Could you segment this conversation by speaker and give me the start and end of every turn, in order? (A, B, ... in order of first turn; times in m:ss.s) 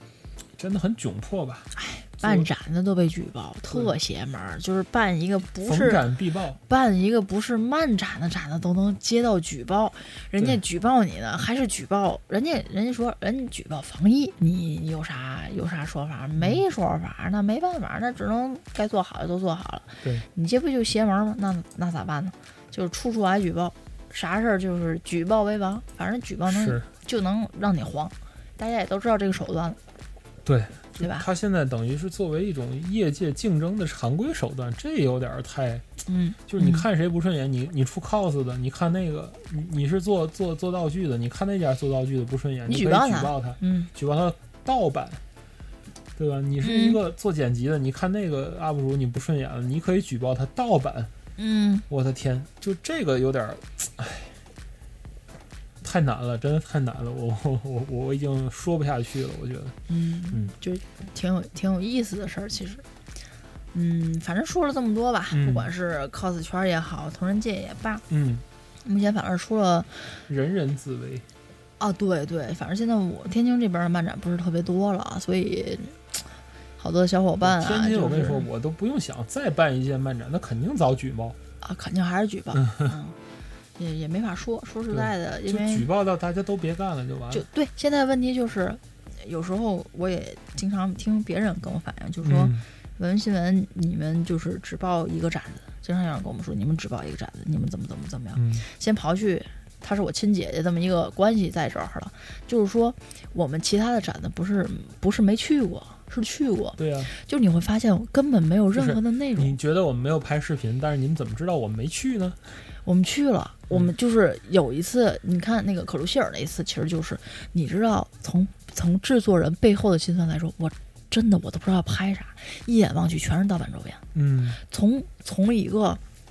0:00.6-0:02.5 A
0:01.7-0:06.0 B
0:03.7-0:03.9 A
0:05.6-0:06.6 A
0:06.7-0:29.8 B
0:26.5-0:26.8 A
0:30.4-0:35.9 A
0:31.0-0:31.3 B
0:36.1-0:36.8 B
0:36.5-0:45.2 A
0:42.7-0:43.9 B
0:46.2-0:51.1 A
0:46.6-0:47.0 B
0:51.4-0:51.8 B
0:51.9-0:54.4 A
0:55.8-0:59.8 A
0:59.9-1:02.8 B
1:03.7-1:08.0 B
1:05.3-1:05.7 A
1:08.1-1:08.4 A
1:08.8-1:10.0 B
1:10.3-1:11.2 A
1:11.8-1:16.2 B
1:16.8-1:18.5 B
1:17.4-1:21.4 A
1:21.6-1:23.2 B
1:22.6-1:22.9 A
1:23.8-1:25.9 B
1:24.9-1:27.4 A
1:27.3-1:49.5 B
1:32.2-1:32.6 A
1:38.4-1:38.7 A
1:46.8-1:47.1 A
1:48.7-1:52.4 A
1:52.8-2:04.0 B
2:04.1-2:04.6 A
2:04.7-2:06.0 B